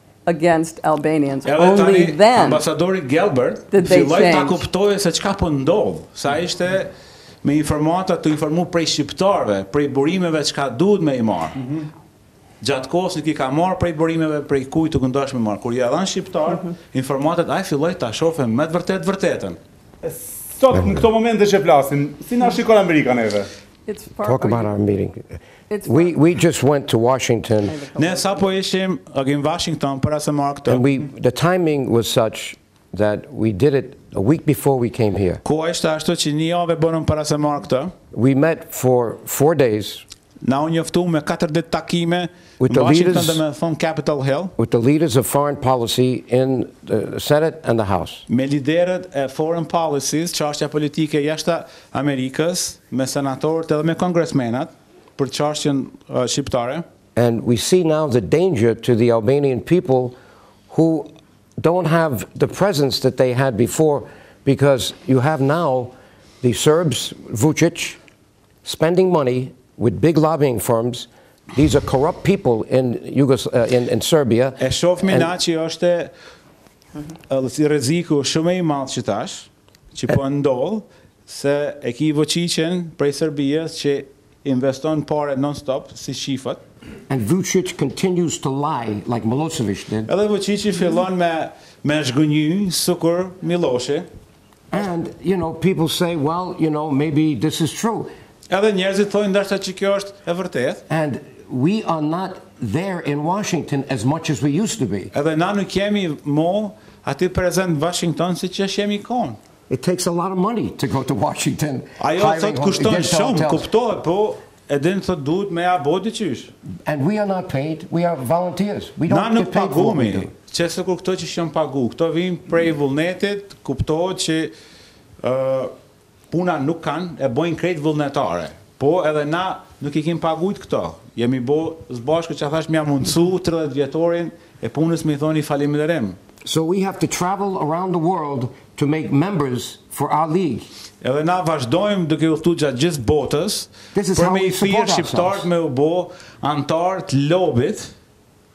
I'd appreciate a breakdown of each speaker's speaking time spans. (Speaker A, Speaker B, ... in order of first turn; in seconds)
Speaker A: 0.3-2.6, 3.7-4.6, 23.9-24.7, 25.7-26.1, 27.6-28.4
Speaker B: 1.4-6.9, 7.4-11.7, 12.6-19.6, 28.0-30.8, 35.4-37.9, 40.4-44.5, 48.3-56.9, 74.6-76.1, 77.3-86.6, 90.1-94.1, 98.5-100.8, 105.1-109.4, 112.0-116.5, 119.1-124.5, 125.2-125.7, 126.3-136.2, 141.0-147.9
Speaker C: 20.0-23.5
Speaker D: 20.7-21.1, 24.2-27.8, 30.7-35.4, 38.1-40.0, 42.6-43.4, 44.6-48.3, 57.2-60.2, 60.7-68.0, 68.7-75.3, 87.1-90.1, 94.7-98.1, 100.9-105.1, 109.7-113.7, 116.9-120.3, 136.4-140.7, 143.9-145.5